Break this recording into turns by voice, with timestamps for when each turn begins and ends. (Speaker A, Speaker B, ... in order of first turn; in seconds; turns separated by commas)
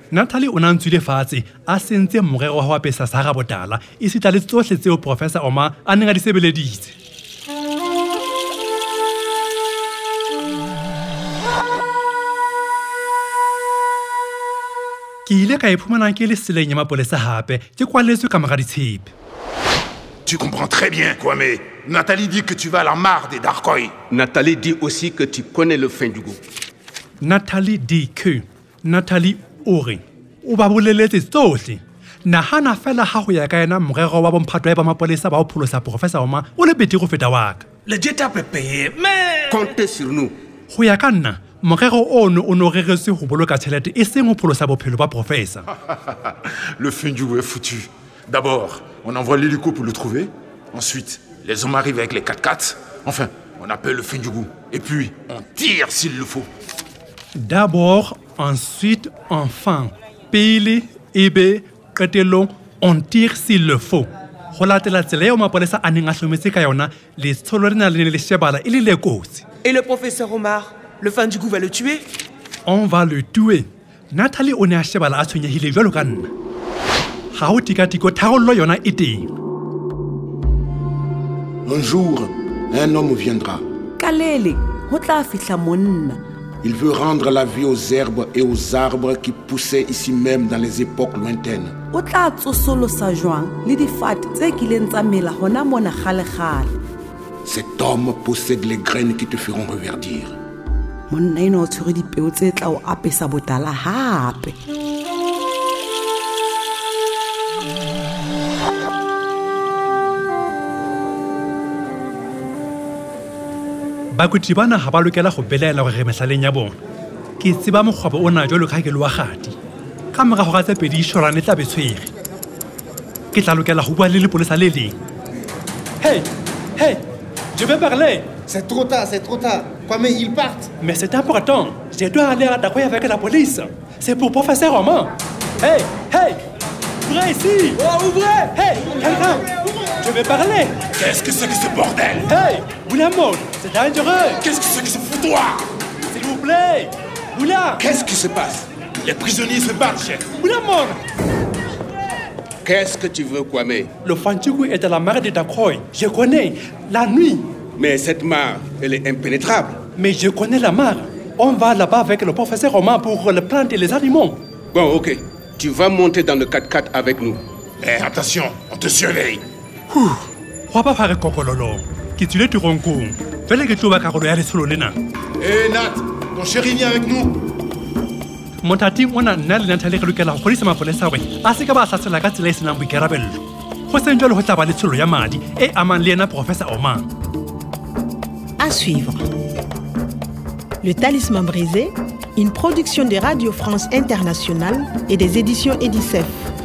Speaker A: 0.1-6.9, Speaker A: 15.2-19.1, Speaker B: 20.3-23.9, Speaker C: 24.1-26.4, Speaker A: 27.2-37.6, Speaker C: 37.9-40.3, Speaker A: 40.7-45.6, Speaker B: 46.8-56.5, Speaker A: 57.4-69.4, Speaker D: 69.6-72.0, Speaker A: 72.7-76.3, Speaker A: 77.3-79.3, Speaker E: 81.7-83.6, Speaker F: 84.0-86.2, Speaker E: 86.6-91.7, Speaker F: 91.9-96.7, Speaker E: 97.4-100.3, Speaker F: 101.1-104.5, Speaker A: 114.1-116.8, Speaker A: 117.4-119.6, Speaker A: 120.1-122.1, Speaker A: 123.3-125.0, Speaker A: 126.0-127.0, Speaker A: 127.5-128.3, Speaker G: 128.5-130.7, Speaker A: 130.8-136.4, Speaker A: 137.0-140.8, Speaker B: 141.0-142.2, Speaker A: 142.2-144.4, Speaker B: 144.4-145.7, Speaker A: 146.1-147.8, Speaker B: 148.0-148.4, Speaker B: 149.0-150.3, Speaker A: 150.3-151.0, Speaker C: 152.6-153.9, Speaker A: 154.0-157.4, Speaker C: 157.8-159.8, Speaker A: 159.9-164.4, Speaker C: 164.7-167.4, Speaker B: 167.8-169.4, Speaker A: 169.9-174.9, Speaker B: 175.4-177.4, Speaker A: 178.6-187.1, Speaker H: 188.6-189.2, Speaker H: 190.8-196.3